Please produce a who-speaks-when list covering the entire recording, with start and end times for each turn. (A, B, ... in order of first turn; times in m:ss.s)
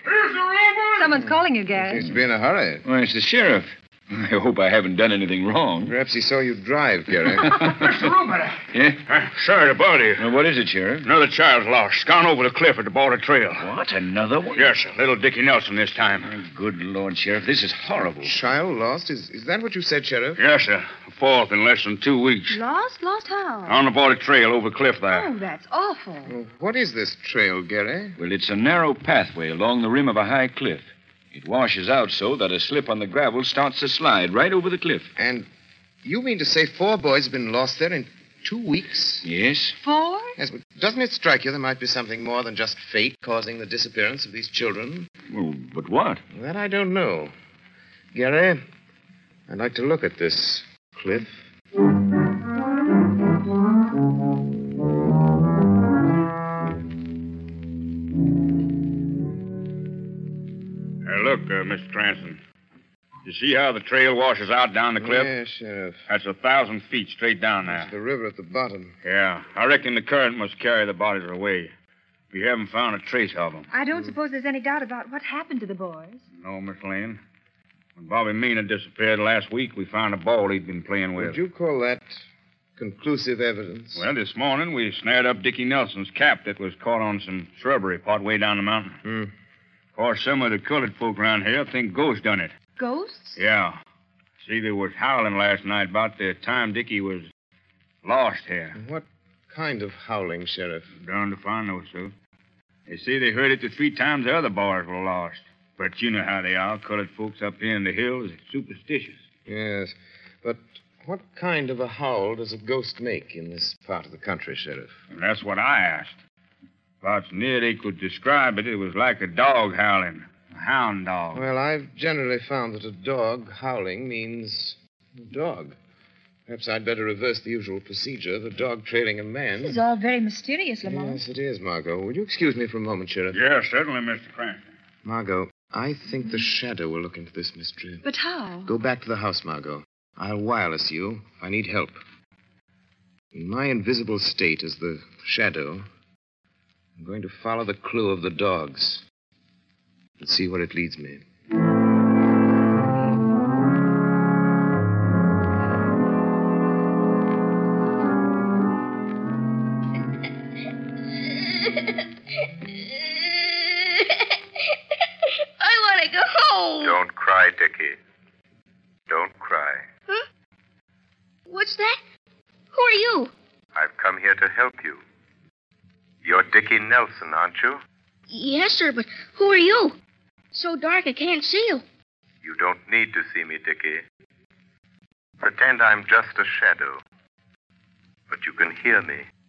0:00.3-0:00.9 A
0:01.0-0:02.0 B
0:01.8-0:02.8 C
0:02.8-0:05.9 D
0:05.8-0:07.8 C
0:07.5-0:08.0 D
0:07.8-0:08.4 A
0:08.7-0:09.0 D
0:09.1-0:10.3 A
0:10.2-0:11.1 D
0:11.0-0:13.7 A
0:13.6-0:14.7 D
0:14.6-0:16.3 A
0:16.3-0:18.4 D
0:18.2-0:20.4 C
0:20.4-0:22.6 A
0:22.5-0:23.8 B
0:23.7-0:25.3 A
0:25.1-0:26.3 B
0:26.2-0:28.2 C
0:28.2-0:35.1 D
0:35.2-0:35.5 C
0:36.0-0:39.3 C
0:39.2-0:39.8 D
0:39.8-0:40.3 B
0:40.4-0:45.1 C
0:45.3-0:46.2 D
0:46.3-0:47.3 C
0:48.1-0:48.6 C
0:49.5-0:51.4 C
1:01.0-1:02.4 A
1:03.2-1:05.3 A
1:05.0-1:06.0 C
1:06.1-1:07.9 A
1:07.6-1:09.0 C
1:09.0-1:11.7 A
1:12.3-1:13.7 A
1:13.7-1:16.2 B
1:16.4-1:17.2 A
1:18.0-1:21.4 A
1:21.2-1:22.2 C
1:22.8-1:24.0 C
1:24.0-1:29.0 A
1:29.0-1:29.3 C
1:30.0-1:32.5 A
1:32.8-1:33.4 B
1:33.4-1:33.8 A
1:34.4-1:37.3 A
1:38.0-1:38.8 A
1:38.8-1:40.9 C
1:41.0-1:42.1 A
1:42.9-1:49.2 A
1:49.5-1:54.9 C
1:55.1-1:56.2 A
1:57.0-2:01.4 A
2:01.3-2:05.8 C
2:06.5-2:09.8 C
2:09.6-2:11.2 B
2:10.8-2:13.4 C
2:13.3-2:14.7 A
2:15.0-2:18.0 C
2:18.0-2:18.7 B
2:18.6-2:22.0 C
2:23.3-2:25.9 C
2:27.0-2:29.0 C
2:30.2-2:31.2 C
2:42.9-2:44.3 E
2:45.6-2:47.0 E
2:46.8-2:48.0 F
2:49.1-2:49.9 F
2:51.5-2:52.0 E
2:52.7-2:53.3 E
2:53.7-2:55.0 F
2:56.2-2:57.8 F
2:58.3-3:00.0 E
3:00.5-3:01.8 E
3:02.4-3:04.0 F
3:05.4-3:07.0 F
3:08.3-3:09.3 F